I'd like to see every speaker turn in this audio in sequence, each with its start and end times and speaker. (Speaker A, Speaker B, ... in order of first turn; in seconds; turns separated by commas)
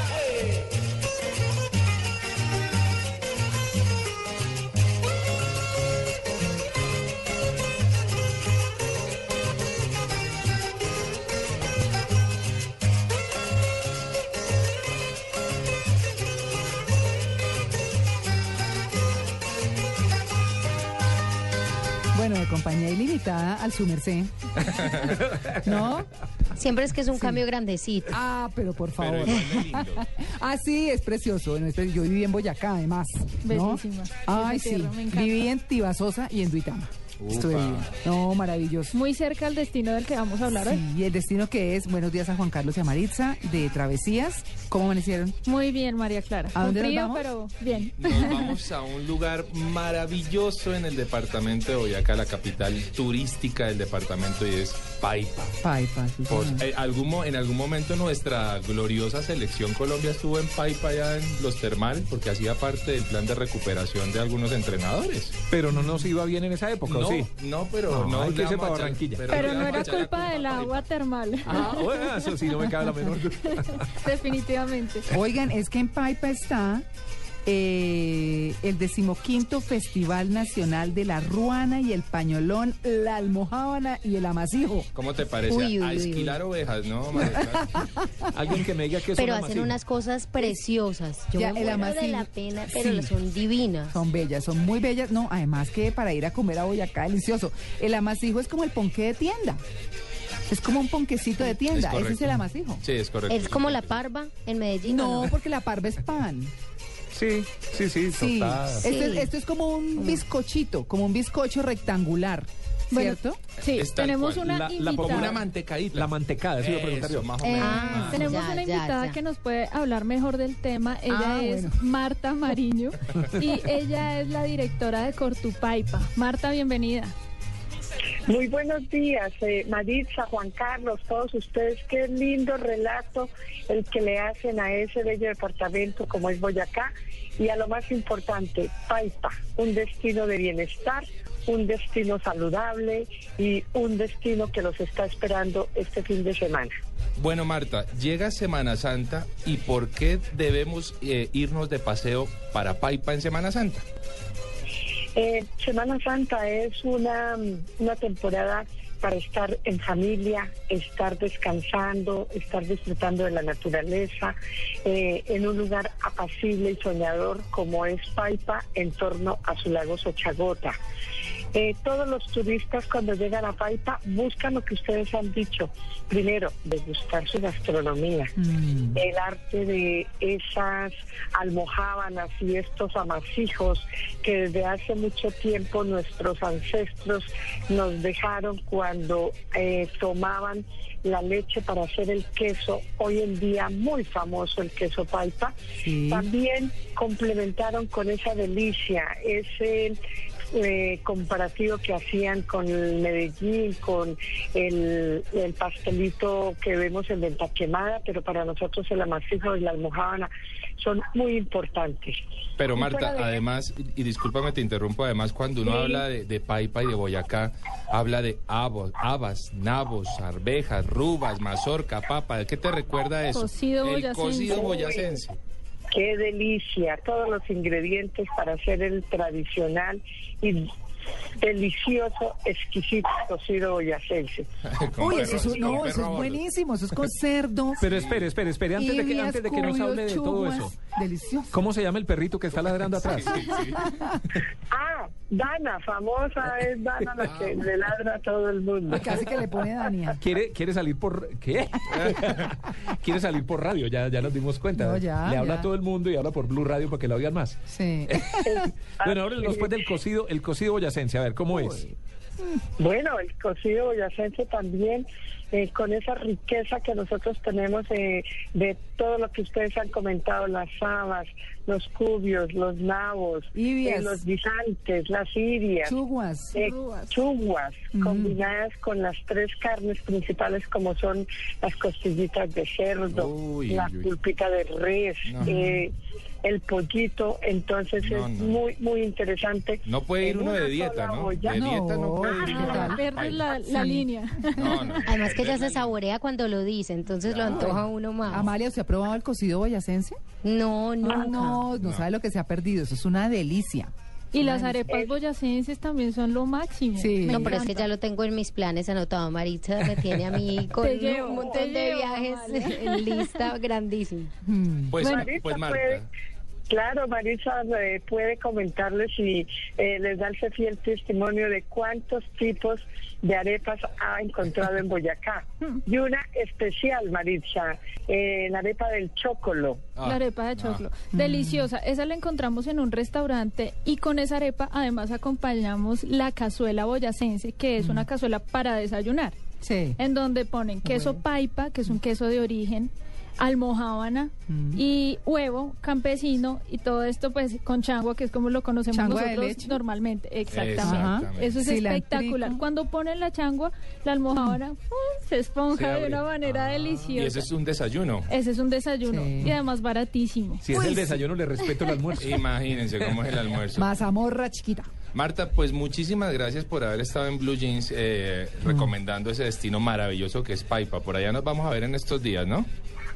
Speaker A: 22.1-24.3, Speaker B: 24.7-25.1, Speaker A: 25.6-26.1, Speaker C: 26.6-28.1, Speaker A: 27.1-27.4, Speaker A: 28.1-38.9, Speaker B: 29.0-30.0, Speaker D: 33.4-35.4, Speaker B: 37.2-37.9, Speaker D: 38.9-40.8, Speaker A: 40.5-45.4, Speaker D: 45.5-48.6, Speaker A: 46.5-47.3, Speaker B: 47.6-55.5, Speaker A: 55.6-56.6, Speaker B: 56.3-65.4, Speaker E: 65.5-67.3, Speaker A: 65.7-66.1, Speaker B: 66.9-70.9, Speaker E: 67.9-69.6, Speaker D: 69.3-72.3, Speaker E: 71.5-73.9, Speaker D: 73.5-75.1, Speaker A: 75.1-76.8, Speaker A: 77.5-84.9, Speaker B: 84.9-87.9, Speaker C: 85.5-86.4, Speaker A: 87.2-88.1, Speaker E: 88.3-89.8, Speaker C: 89.1-94.0, Speaker A: 91.3-93.2, Speaker A: 93.9-99.6, Speaker A: 100.5-102.8, Speaker B: 101.5-104.0, Speaker C: 103.3-105.3, Speaker A: 104.8-106.5, Speaker E: 107.1-108.9, Speaker A: 108.1-113.4, Speaker C: 108.8-109.3, Speaker D: 112.9-115.4, Speaker B: 113.7-118.5, Speaker E: 114.4-115.4, Speaker E: 115.9-117.6, Speaker A: 117.4-118.1, Speaker C: 117.6-119.2, Speaker D: 118.1-127.1, Speaker A: 121.1-121.8, Speaker F: 128.3-146.7, Speaker B: 147.2-153.8, Speaker F: 155.2-170.8, Speaker F: 171.5-178.3, Speaker A: 178.4-179.0, Speaker F: 178.9-195.5, Speaker A: 195.8-196.3, Speaker F: 196.1-200.0, Speaker F: 200.5-212.2, Speaker B: 212.6-225.4, Speaker F: 212.8-213.4, Speaker D: 223.3-224.7, Speaker F: 224.5-225.2, Speaker F: 225.9-230.6, Speaker F: 231.4-234.5, Speaker B: 234.7-236.4, Speaker A: 235.0-237.9, Speaker F: 235.2-235.6, Speaker E: 237.8-240.8, Speaker B: 237.8-238.3, Speaker A: 238.8-241.6, Speaker E: 241.5-243.4, Speaker B: 243.0-244.4, Speaker A: 243.8-244.2, Speaker F: 244.7-249.4, Speaker B: 247.2-247.6, Speaker A: 248.9-250.2, Speaker E: 250.2-261.9, Speaker A: 254.7-255.7, Speaker A: 257.7-258.4, Speaker F: 258.4-259.7, Speaker A: 261.5-261.9, Speaker F: 262.8-276.0, Speaker A: 273.6-274.2, Speaker A: 275.8-276.6, Speaker D: 276.6-277.1, Speaker F: 276.6-285.9, Speaker A: 277.9-278.4, Speaker B: 283.1-284.1, Speaker B: 285.3-285.6, Speaker A: 285.4-285.9, Speaker F: 286.4-291.7, Speaker B: 288.0-288.6, Speaker B: 289.9-293.5, Speaker A: 291.5-293.0, Speaker D: 292.4-295.0, Speaker A: 293.7-294.1, Speaker B: 294.6-296.0, Speaker C: 295.0-298.5, Speaker B: 297.2-298.5, Speaker A: 297.4-300.2, Speaker C: 300.4-301.7, Speaker A: 301.0-304.8, Speaker B: 301.8-302.1, Speaker D: 304.3-307.9, Speaker A: 307.0-307.6, Speaker C: 307.3-314.3, Speaker D: 310.8-313.5, Speaker A: 314.5-314.9, Speaker B: 314.9-316.1, Speaker D: 315.0-315.3, Speaker F: 315.0-316.0, Speaker F: 316.7-329.8, Speaker B: 330.0-330.8, Speaker D: 330.0-339.4, Speaker A: 331.1-331.7, Speaker A: 337.8-338.1, Speaker A: 339.6-340.0, Speaker D: 340.0-357.5, Speaker A: 340.9-341.2, Speaker A: 344.5-344.8, Speaker A: 348.9-349.8, Speaker B: 350.5-351.6, Speaker A: 350.8-352.6, Speaker B: 355.7-358.3, Speaker D: 358.3-361.0, Speaker A: 359.1-359.6, Speaker E: 360.6-363.2, Speaker A: 360.7-361.2, Speaker D: 361.7-361.9, Speaker B: 362.2-363.9, Speaker A: 363.8-364.9, Speaker B: 365.1-372.7, Speaker A: 368.7-368.9